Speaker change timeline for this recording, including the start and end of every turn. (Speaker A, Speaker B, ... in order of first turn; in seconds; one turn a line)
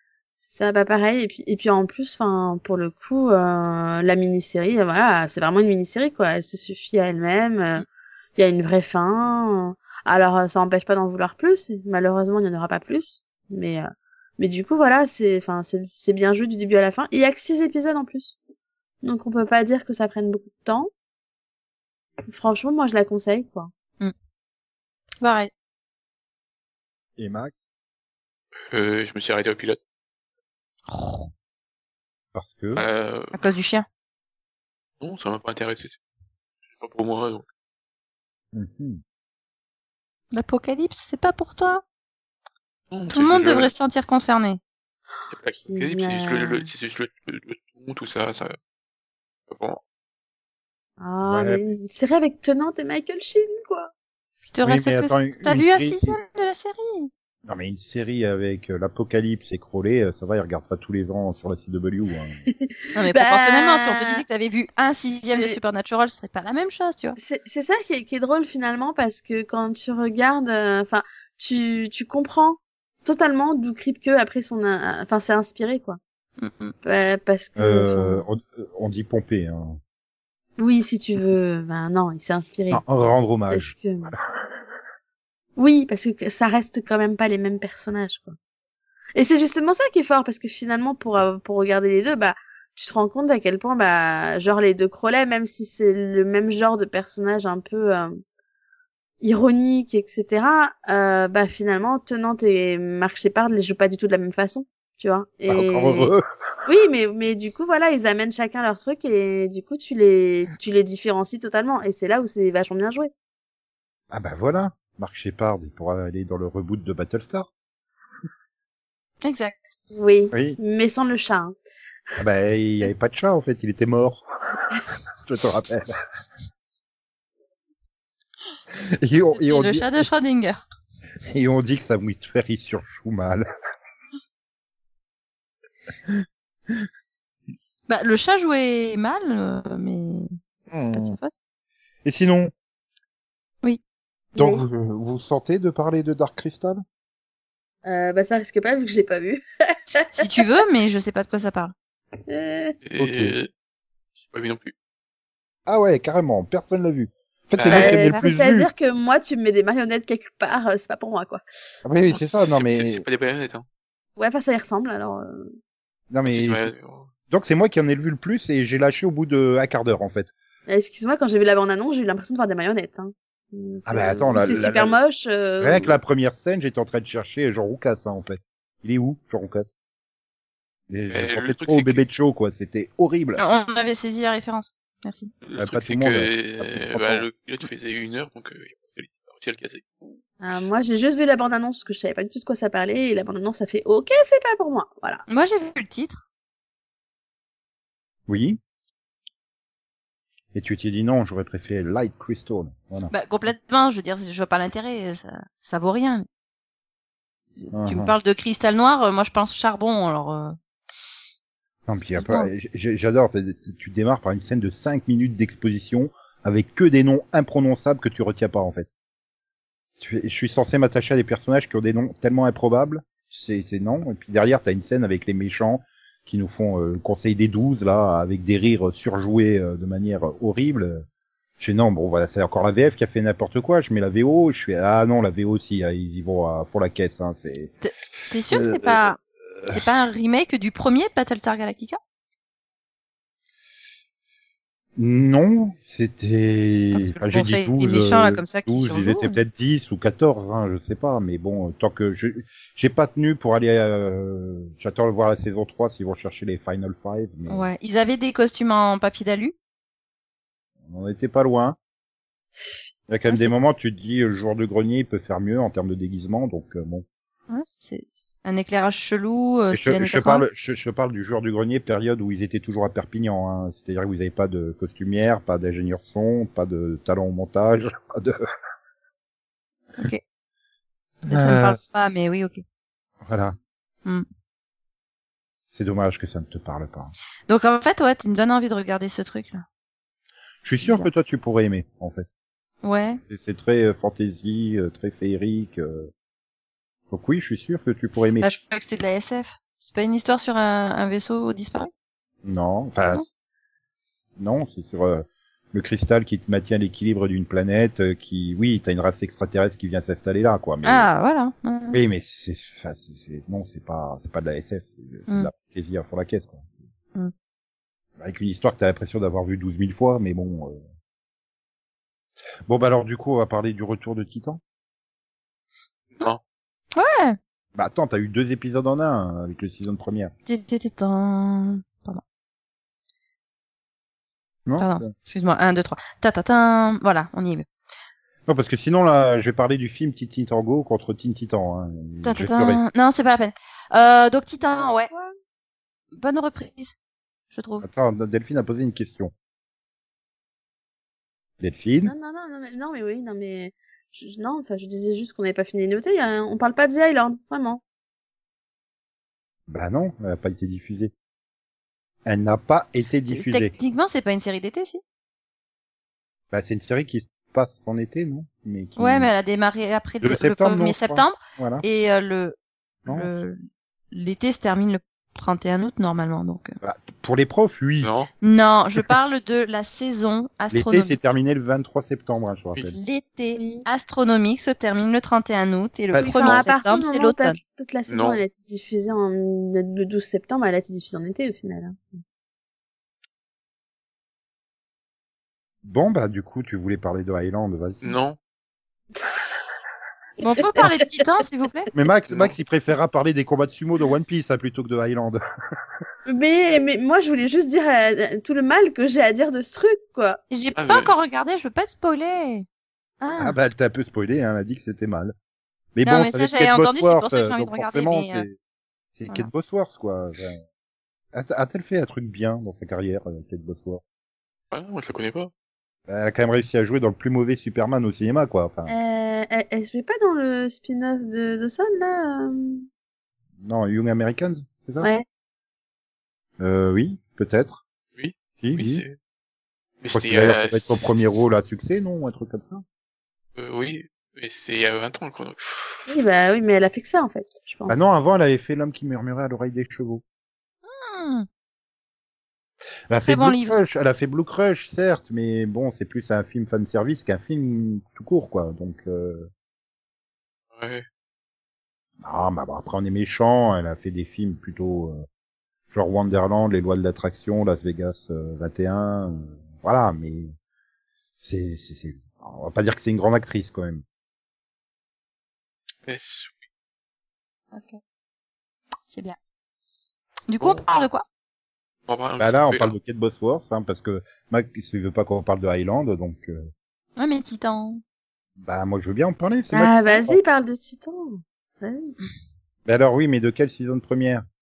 Speaker A: 0.4-7.8
Speaker A: 8.4-18.3
Speaker A: 19.0-20.9
Speaker A: 22.3-23.7
Speaker B: 25.2-25.5
Speaker C: 27.2-27.6
Speaker D: 28.7-29.8
Speaker B: 30.9-31.3
Speaker C: 32.3-32.8
Speaker D: 32.8-33.3
Speaker B: 33.3-33.9
Speaker D: 35.0-36.0
Speaker D: 36.8-37.4
Speaker C: 38.5-39.0
Speaker B: 40.3-41.8
Speaker D: 42.9-43.7
Speaker B: 43.1-44.6
Speaker D: 45.3-48.5
Speaker A: 45.7-46.7
Speaker D: 49.5-49.8
Speaker A: 51.0-53.9
Speaker C: 51.3-51.6
Speaker B: 54.5-57.1
Speaker C: 54.6-56.2
Speaker C: 57.5-62.4
Speaker A: 62.5-64.2
Speaker B: 62.9-67.2
Speaker A: 67.2-76.0
Speaker B: 76.4-76.7
Speaker A: 76.8-78.2
Speaker C: 77.6-79.8
Speaker A: 80.6-82.8
Speaker C: 82.7-84.2
Speaker A: 83.5-84.1
Speaker A: 85.5-88.3
Speaker A: 89.2-98.2
Speaker A: 99.2-106.1
Speaker C: 105.5-106.2
Speaker A: 106.6-113.1
Speaker C: 114.1-117.5
Speaker B: 119.2-119.6
Speaker A: 119.9-121.5
Speaker C: 120.3-120.6
Speaker C: 122.2-126.0
Speaker C: 129.0-129.9
Speaker B: 129.3-130.6
Speaker C: 131.2-133.4
Speaker B: 137.9-141.3
Speaker C: 140.7-141.2
Speaker C: 142.0-142.5
Speaker A: 144.3-144.6
Speaker C: 144.3-146.8
Speaker A: 147.8-150.1
Speaker B: 150.1-151.7
Speaker A: 152.3-152.8
Speaker D: 152.8-153.5
Speaker C: 153.0-153.3
Speaker D: 154.2-154.7
Speaker C: 155.7-158.7
Speaker D: 157.5-157.9
Speaker A: 157.7-161.4
Speaker B: 157.9-158.2
Speaker C: 161.8-163.0
Speaker D: 162.1-163.6
Speaker A: 164.2-165.5
Speaker C: 166.1-166.7
Speaker D: 166.2-167.1
Speaker C: 167.3-170.3
Speaker A: 170.7-175.9
Speaker C: 173.9-174.9
Speaker C: 175.6-179.7
Speaker C: 180.9-183.4
Speaker D: 181.1-182.0
Speaker B: 183.4-185.3
Speaker D: 185.4-189.8
Speaker C: 185.6-187.2
Speaker A: 190.4-195.2
Speaker B: 195.3-196.2
Speaker C: 198.3-198.6
Speaker C: 200.5-203.1
Speaker B: 203.1-206.2
Speaker B: 207.6-210.6
Speaker C: 207.7-208.1
Speaker C: 211.9-218.9
Speaker B: 212.2-212.5
Speaker C: 220.0-231.1
Speaker C: 231.6-237.7
Speaker B: 237.8-242.0
Speaker C: 238.5-239.0
Speaker C: 244.9-257.6
Speaker B: 246.9-249.4
Speaker B: 257.5-259.5
Speaker C: 260.9-261.8
Speaker C: 263.1-267.0
Speaker B: 267.5-270.4
Speaker C: 269.7-278.4
Speaker C: 281.2-281.8
Speaker B: 281.2-282.6
Speaker C: 283.2-283.6
Speaker C: 285.7-287.1
Speaker B: 287.5-289.6
Speaker C: 290.6-292.3
Speaker B: 290.8-291.1
Speaker B: 292.8-293.2
Speaker C: 293.3-296.1
Speaker C: 297.1-298.5
Speaker B: 298.4-301.9
Speaker C: 302.4-303.3
Speaker C: 304.4-311.1
Speaker B: 310.8-312.0
Speaker C: 311.9-316.7
Speaker C: 318.2-320.8
Speaker C: 322.7-324.6
Speaker B: 326.9-327.4
Speaker C: 327.7-330.3
Speaker B: 330.5-332.2
Speaker C: 334.6-335.1
Speaker B: 334.8-337.7
Speaker C: 338.5-342.8
Speaker B: 342.2-345.1
Speaker A: 344.7-345.3
Speaker B: 346.1-346.9
Speaker B: 347.5-347.9
Speaker C: 347.8-349.3
Speaker C: 351.6-352.1
Speaker A: 352.0-357.8
Speaker C: 359.7-361.1
Speaker C: 362.2-363.7
Speaker B: 363.2-365.0
Speaker C: 366.5-369.3
Speaker B: 369.0-372.6
Speaker C: 370.2-371.8
Speaker B: 373.1-373.6
Speaker B: 374.1-376.8
Speaker C: 376.8-378.1
Speaker D: 378.0-378.3
Speaker B: 378.4-381.2
Speaker C: 380.7-383.0
Speaker B: 382.9-387.6
Speaker A: 383.6-383.8
Speaker C: 386.1-386.6
Speaker A: 386.2-392.2
Speaker D: 388.1-388.4
Speaker C: 395.8-398.2
Speaker D: 398.0-398.4
Speaker A: 399.1-399.5
Speaker B: 400.4-401.9
Speaker C: 401.9-405.4
Speaker A: 406.2-410.4
Speaker B: 410.5-412.6
Speaker D: 410.8-411.2
Speaker A: 413.2-413.5
Speaker C: 413.4-415.3
Speaker C: 415.9-418.6
Speaker B: 416.0-418.5
Speaker C: 419.2-420.6
Speaker C: 421.3-424.0
Speaker D: 424.7-425.5
Speaker C: 426.1-428.9
Speaker A: 428.9-432.8
Speaker C: 433.6-435.1
Speaker C: 436.6-437.8
Speaker D: 438.1-439.1
Speaker C: 438.6-439.0
Speaker D: 440.0-441.4
Speaker C: 440.1-442.8
Speaker D: 443.6-446.1
Speaker A: 446.1-448.0
Speaker C: 447.9-450.2
Speaker B: 450.9-451.4
Speaker C: 453.1-459.5
Speaker B: 453.2-453.8
Speaker D: 460.7-461.0
Speaker C: 462.2-465.2
Speaker C: 465.9-470.5
Speaker C: 471.4-474.0
Speaker D: 476.1-476.6
Speaker B: 477.7-478.0
Speaker B: 479.1-479.4
Speaker B: 480.5-481.2
Speaker D: 480.6-480.8
Speaker D: 482.1-482.9
Speaker C: 482.4-486.7
Speaker B: 487.1-488.0
Speaker C: 488.6-490.4
Speaker A: 489.7-492.1
Speaker C: 492.9-494.4